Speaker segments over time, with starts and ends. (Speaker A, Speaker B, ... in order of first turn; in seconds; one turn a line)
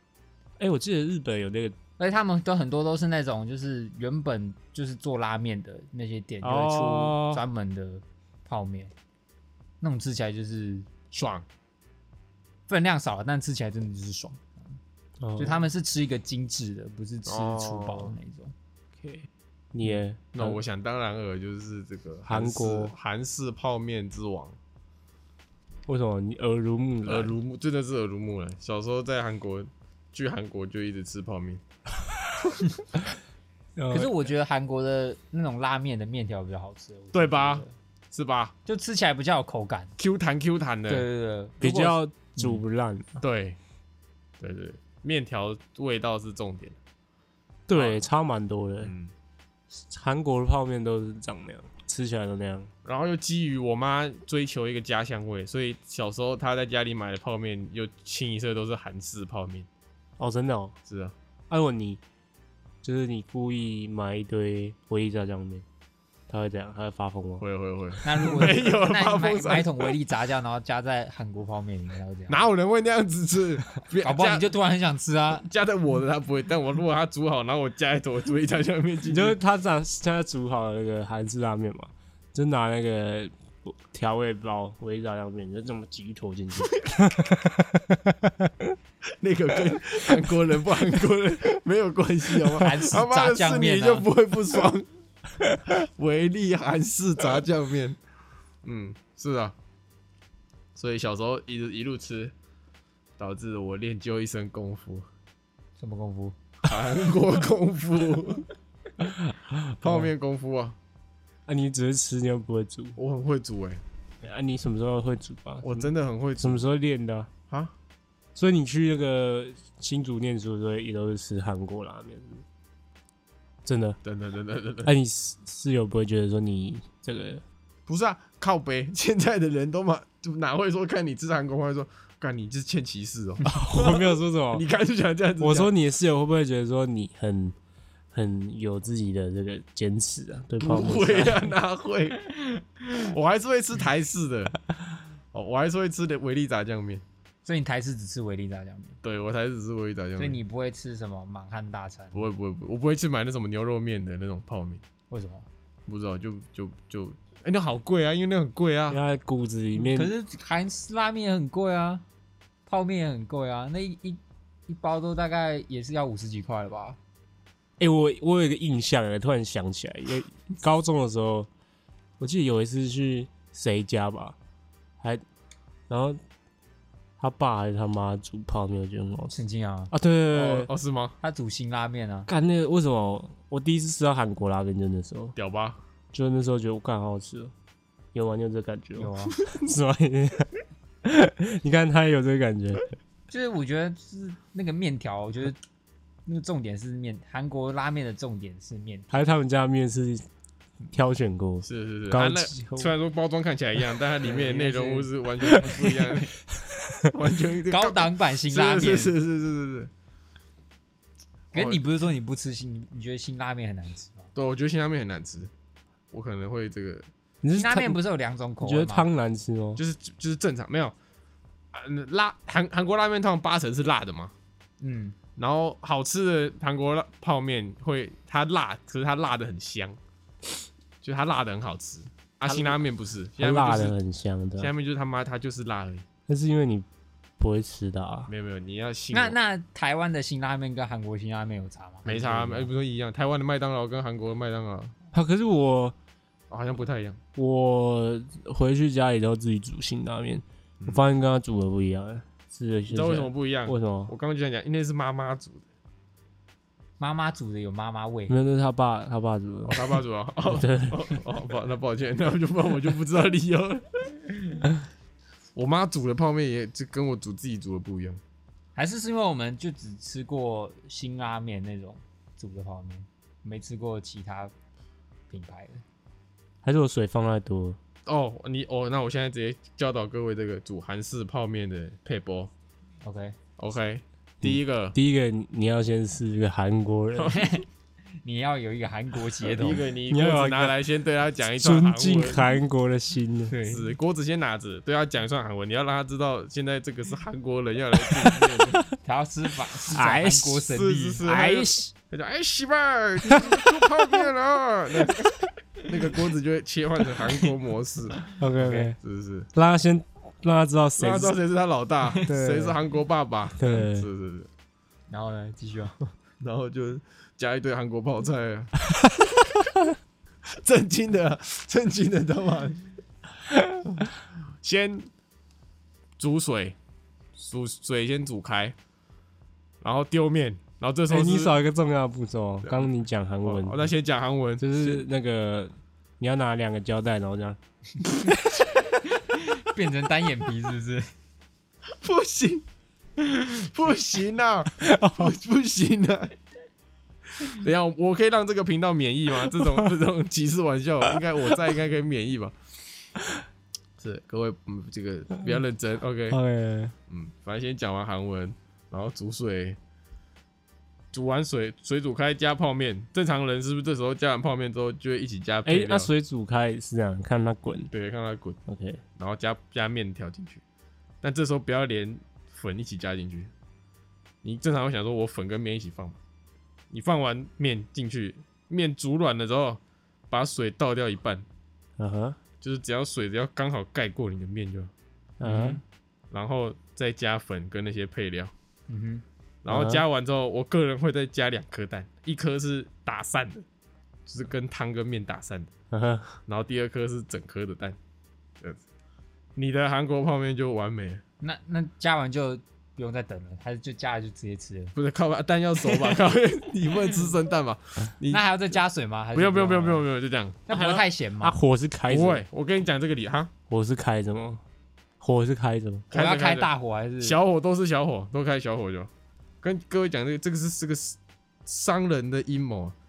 Speaker A: 0.6-1.8
Speaker B: 2.0-8.9
Speaker A: 6.4-7.4
Speaker B: 9.8-10.9
Speaker C: 11.1-11.4
Speaker B: 12.7-14.8
Speaker A: 15.2-15.7
Speaker B: 15.4-18.5
Speaker C: 17.2-18.1
Speaker A: 19.0-20.6
Speaker C: 20.3-24.6
Speaker A: 22.2-22.9
Speaker A: 25.9-27.3
Speaker C: 27.0-31.6
Speaker A: 33.8-34.1
Speaker B: 33.9-37.7
Speaker C: 37.1-38.5
Speaker B: 38.6-39.9
Speaker C: 40.0-41.1
Speaker B: 40.9-42.6
Speaker A: 41.6-43.2
Speaker C: 43.2-43.6
Speaker C: 44.4-46.8
Speaker A: 47.7-48.9
Speaker C: 47.7-48.0
Speaker C: 48.8-49.1
Speaker A: 49.7-52.7
Speaker C: 52.8-59.7
Speaker A: 60.2-60.7
Speaker C: 60.9-61.1
Speaker A: 61.5-62.0
Speaker A: 62.8-65.6
Speaker A: 66.3-67.4
Speaker C: 67.4-69.9
Speaker B: 68.0-72.4
Speaker C: 72.3-74.5
Speaker B: 74.0-75.5
Speaker C: 75.4-79.4
Speaker A: 79.0-88.8
Speaker C: 89.2-94.8
Speaker B: 92.6-94.1
Speaker C: 95.7-98.0
Speaker C: 98.6-99.5
Speaker C: 100.8-102.3
Speaker C: 103.2-105.0
Speaker B: 105.8-106.3
Speaker C: 106.6-108.5
Speaker C: 109.0-110.8
Speaker A: 109.8-110.1
Speaker A: 111.5-113.0
Speaker C: 113.0-113.8
Speaker A: 114.2-117.3
Speaker C: 115.6-116.6
Speaker A: 118.3-122.4
Speaker A: 123.6-124.0
Speaker C: 124.0-124.9
Speaker A: 124.8-127.4
Speaker C: 127.9-135.7
Speaker A: 133.4-134.6
Speaker A: 135.4-137.6
Speaker A: 138.1-141.5
Speaker C: 140.6-142.3
Speaker C: 142.9-144.6
Speaker C: 145.3-147.0
Speaker B: 147.4-149.0
Speaker C: 149.0-150.4
Speaker B: 150.2-152.3
Speaker C: 152.1-154.8
Speaker B: 155.1-155.5
Speaker C: 155.9-159.0
Speaker A: 158.9-160.1
Speaker B: 159.7-162.0
Speaker B: 162.7-167.0
Speaker A: 167.8-171.5
Speaker A: 172.2-174.3
Speaker A: 175.9-176.2
Speaker A: 177.2-179.3
Speaker B: 179.3-179.9
Speaker A: 179.9-180.7
Speaker C: 180.3-181.2
Speaker B: 181.2-182.3
Speaker A: 182.3-185.3
Speaker C: 185.3-185.8
Speaker A: 186.1-187.5
Speaker A: 188.1-190.5
Speaker B: 188.9-189.4
Speaker A: 191.0-192.8
Speaker B: 193.3-195.6
Speaker B: 196.2-199.2
Speaker A: 199.1-200.2
Speaker A: 200.9-202.9
Speaker C: 201.6-206.3
Speaker B: 204.2-205.9
Speaker A: 205.4-205.9
Speaker A: 206.8-207.1
Speaker C: 207.1-209.9
Speaker B: 207.7-209.1
Speaker B: 211.5-214.3
Speaker C: 211.5-211.8
Speaker C: 214.3-215.5
Speaker C: 216.1-217.1
Speaker A: 217.4-218.0
Speaker B: 217.5-219.1
Speaker A: 218.6-219.8
Speaker C: 219.8-220.9
Speaker C: 221.7-224.3
Speaker B: 224.8-225.2
Speaker C: 225.4-230.0
Speaker C: 231.0-233.9
Speaker A: 233.4-234.7
Speaker C: 234.6-236.1
Speaker A: 236.3-236.8
Speaker A: 237.4-238.3
Speaker C: 238.3-239.4
Speaker B: 239.1-242.7
Speaker C: 242.0-244.9
Speaker A: 245.1-245.9
Speaker C: 246.5-247.2
Speaker A: 247.3-254.1
Speaker C: 252.9-255.6
Speaker B: 257.0-258.4
Speaker A: 258.3-261.1
Speaker C: 259.6-264.6
Speaker C: 265.6-268.2
Speaker B: 268.8-274.5
Speaker B: 275.3-275.8
Speaker A: 276.6-277.8
Speaker C: 278.1-282.5
Speaker B: 283.0-283.4
Speaker C: 283.6-284.9
Speaker A: 284.4-287.4
Speaker B: 287.3-287.6
Speaker B: 288.2-289.9
Speaker C: 289.4-292.5
Speaker A: 290.1-290.8
Speaker A: 291.6-293.6
Speaker B: 293.5-293.8
Speaker C: 293.6-298.8
Speaker A: 298.0-298.9
Speaker B: 299.0-301.2
Speaker A: 299.9-300.7
Speaker C: 300.7-308.2
Speaker A: 301.2-301.9
Speaker A: 303.2-304.2
Speaker A: 308.3-309.0
Speaker B: 308.6-308.9
Speaker C: 309.0-309.5
Speaker A: 309.5-311.4
Speaker C: 311.0-314.5
Speaker A: 312.3-312.8
Speaker A: 313.6-314.1
Speaker B: 315.1-316.0
Speaker C: 316.4-318.7
Speaker A: 318.9-319.5
Speaker C: 320.5-322.8
Speaker A: 323.5-323.8
Speaker C: 324.6-325.1
Speaker C: 326.2-326.8
Speaker C: 327.4-328.7
Speaker C: 329.8-331.6
Speaker A: 331.1-333.9
Speaker C: 333.4-335.0
Speaker A: 334.6-337.6
Speaker B: 339.0-341.1
Speaker C: 341.9-342.6
Speaker C: 343.3-346.3
Speaker A: 344.8-345.3
Speaker C: 347.4-352.5
Speaker A: 349.5-349.9
Speaker C: 354.0-356.4
Speaker A: 356.3-356.9
Speaker C: 357.1-359.8
Speaker C: 361.1-366.1
Speaker A: 365.6-367.9
Speaker C: 367.9-368.6
Speaker A: 368.7-369.0
Speaker C: 369.2-370.6
Speaker C: 371.2-373.5
Speaker C: 374.4-376.2
Speaker C: 376.9-381.4
Speaker A: 382.0-382.4
Speaker C: 382.6-384.9
Speaker A: 385.4-385.8
Speaker B: 385.4-385.8
Speaker C: 386.3-388.5
Speaker B: 388.9-389.2
Speaker C: 389.6-393.6
Speaker A: 389.7-390.0
Speaker C: 394.3-395.7
Speaker A: 395.9-396.3
Speaker C: 396.5-398.0
Speaker C: 399.6-401.2
Speaker B: 401.4-404.9
Speaker C: 404.9-408.4
Speaker B: 408.3-410.0
Speaker C: 409.3-410.7
Speaker B: 410.7-411.6
Speaker A: 410.7-412.4
Speaker C: 412.1-413.5
Speaker A: 413.7-414.6
Speaker A: 415.2-416.1
Speaker C: 416.1-416.7
Speaker B: 416.1-417.4
Speaker C: 417.2-419.1
Speaker C: 419.6-422.9